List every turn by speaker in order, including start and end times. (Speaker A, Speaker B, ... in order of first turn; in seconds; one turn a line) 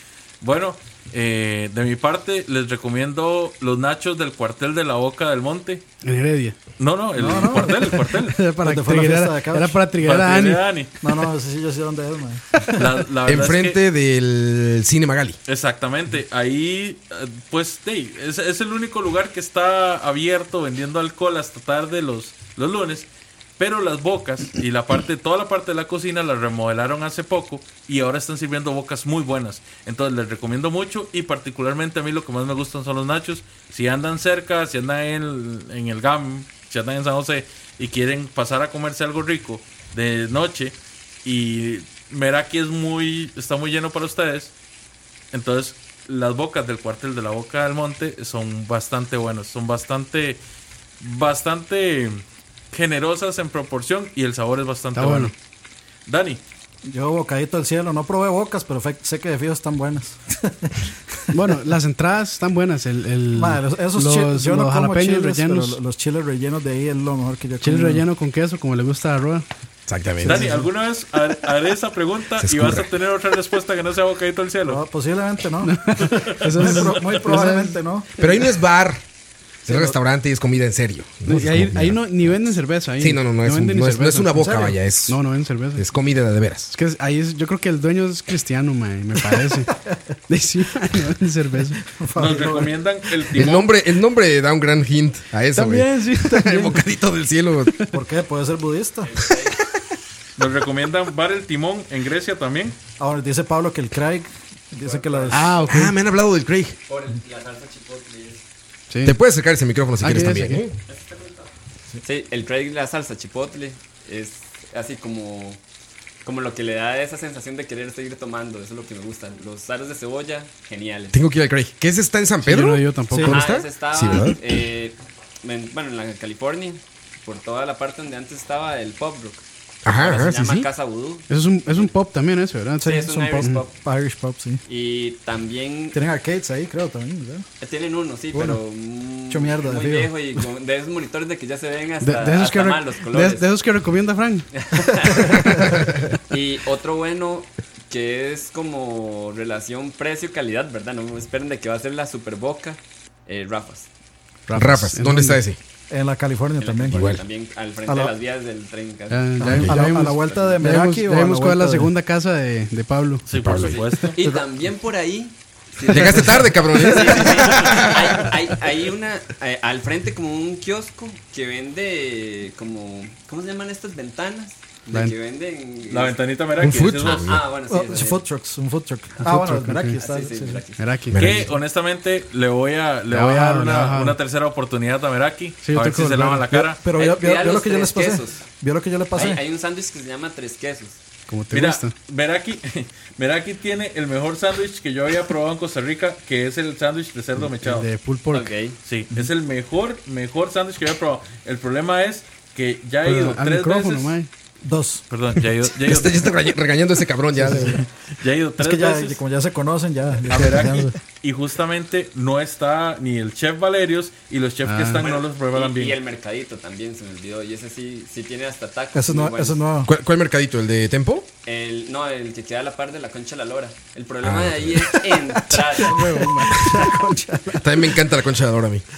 Speaker A: 0.4-5.8
Speaker B: 6.0-6.6
Speaker A: 6.8-8.4
Speaker C: 7.2-8.0
Speaker B: 7.5-10.7
Speaker C: 8.6-9.8
Speaker A: 10.0-10.9
Speaker C: 11.0-12.9
Speaker A: 12.7-13.8
Speaker D: 13.2-15.4
Speaker A: 15.5-23.1
Speaker A: 23.6-44.5
Speaker A: 45.3-50.4
Speaker A: 51.0-55.4
Speaker B: 55.0-55.3
Speaker A: 56.1-56.4
Speaker C: 56.9-60.9
Speaker B: 61.3-65.8
Speaker C: 63.3-68.0
Speaker B: 67.6-69.5
Speaker D: 69.9-70.5
Speaker A: 70.2-74.8
Speaker C: 70.3-70.6
Speaker D: 72.4-72.9
Speaker C: 74.7-78.5
Speaker B: 75.6-77.8
Speaker A: 76.0-77.2
Speaker D: 78.2-79.0
Speaker C: 79.7-80.0
Speaker D: 79.7-85.2
Speaker B: 81.3-84.4
Speaker C: 84.3-84.8
Speaker B: 85.1-85.8
Speaker D: 85.8-86.7
Speaker B: 86.7-89.7
Speaker B: 90.3-91.8
Speaker C: 91.9-92.8
Speaker A: 92.2-93.7
Speaker D: 93.3-97.8
Speaker B: 95.5-96.8
Speaker B: 97.7-98.0
Speaker C: 97.9-99.1
Speaker E: 99.0-99.6
Speaker D: 99.5-99.9
Speaker A: 100.4-102.8
Speaker C: 103.0-105.7
Speaker E: 104.8-105.8
Speaker B: 105.3-106.0
Speaker D: 105.7-106.8
Speaker E: 106.9-108.5
Speaker B: 108.9-109.2
Speaker D: 109.0-110.8
Speaker B: 110.0-110.7
Speaker E: 110.9-111.5
Speaker E: 112.0-115.6
Speaker E: 116.2-121.2
Speaker D: 121.1-124.4
Speaker B: 122.4-123.4
Speaker E: 123.3-131.9
Speaker D: 129.8-130.7
Speaker B: 131.3-133.6
Speaker C: 132.8-134.6
Speaker E: 132.8-133.7
Speaker E: 134.7-136.0
Speaker C: 135.9-137.5
Speaker E: 137.6-143.5
Speaker C: 138.3-138.6
Speaker C: 139.3-140.2
Speaker B: 142.0-144.5
Speaker E: 144.5-153.9
Speaker C: 145.3-145.6
Speaker B: 154.5-155.4
Speaker D: 154.5-155.6
Speaker C: 155.9-157.1
Speaker E: 156.6-159.4
Speaker D: 156.9-157.2
Speaker C: 157.9-158.1
Speaker B: 159.1-163.3
Speaker C: 159.4-161.9
Speaker E: 159.9-160.7
Speaker A: 163.3-164.2
Speaker D: 163.4-163.8
Speaker E: 163.6-176.2
Speaker D: 165.9-168.2
Speaker A: 175.9-177.4
Speaker D: 176.6-177.4
Speaker E: 176.9-178.3
Speaker C: 177.7-180.6
Speaker B: 179.2-180.0
Speaker E: 180.0-180.9
Speaker B: 180.8-181.5
Speaker D: 181.1-181.5
Speaker A: 181.2-186.8
Speaker B: 183.1-184.2
Speaker B: 185.6-186.7
Speaker C: 186.6-189.4
Speaker E: 186.9-188.5
Speaker E: 189.1-191.0
Speaker B: 191.3-191.9
Speaker A: 191.5-197.9
Speaker B: 197.6-198.5
Speaker E: 198.3-198.8
Speaker A: 198.9-204.1
Speaker B: 203.0-204.3
Speaker C: 204.7-205.0
Speaker A: 205.1-206.3
Speaker D: 205.7-207.8
Speaker C: 207.4-207.8
Speaker A: 207.8-209.2
Speaker C: 208.6-211.0
Speaker A: 210.3-216.0
Speaker B: 214.7-215.1
Speaker E: 215.0-219.7
Speaker C: 218.9-219.9
Speaker D: 219.9-221.3
Speaker E: 221.4-226.2
Speaker D: 224.2-225.6
Speaker B: 225.8-226.6
Speaker C: 225.9-227.8
Speaker D: 227.6-228.8